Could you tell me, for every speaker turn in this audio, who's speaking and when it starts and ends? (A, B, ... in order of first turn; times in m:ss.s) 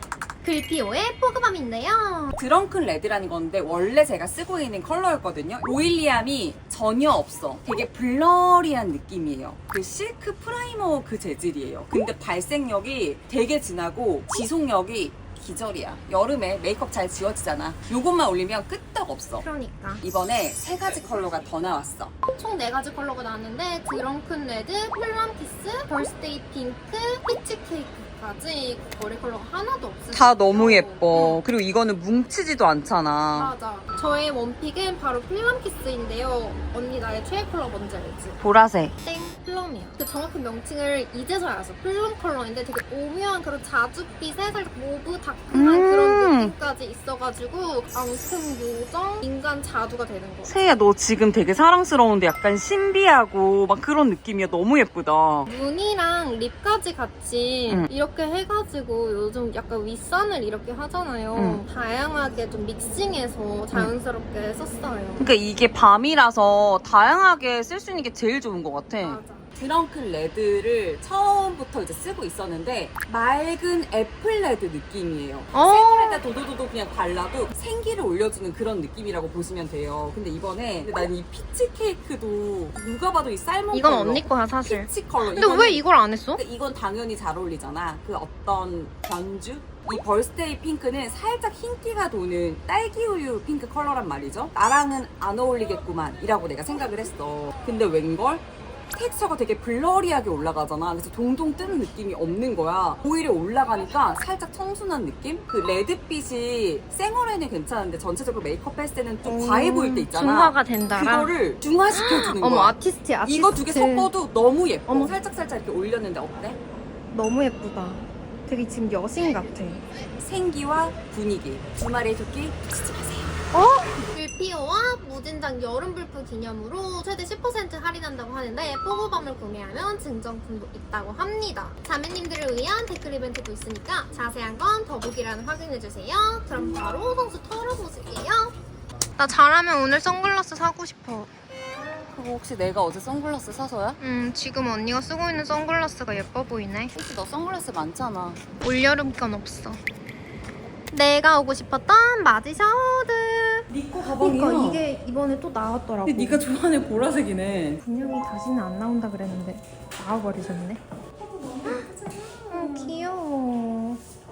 0:00.4-0:02.4 A
0:02.4-0:19.5 B
0:19.4-0:20.0 A
0:20.0-0:22.1 B
0:22.3-0:31.4 A
0:30.1-0:33.5 B
0:33.4-0:38.4 A
0:38.4-0:38.9 B
0:39.0-0:50.5 A
0:45.5-0:46.5 B
0:50.5-0:55.5 B
0:55.5-1:05.3 A
1:01.3-1:01.6 B
1:05.2-1:25.8 B
1:09.0-1:09.5 A
1:15.5-1:16.2 A
1:23.7-1:26.4 A
1:26.4-1:56.6 B
1:49.2-1:51.3 A
1:51.9-1:54.1 A
1:54.9-1:55.2 A
1:57.1-1:59.8 A
2:00.2-2:03.4 B
2:03.5-2:18.6 A
2:19.2-2:21.3 A
2:22.1-2:24.0 B
2:24.0-2:26.9 A
2:26.9-2:28.4 B
2:28.6-2:29.8 A
2:30.9-2:36.5 A
2:33.7-2:34.8 B
2:36.0-2:37.8 B
2:37.8-2:40.8 A
2:41.2-2:43.0 B
2:41.6-2:41.9 A
2:42.4-2:44.0 A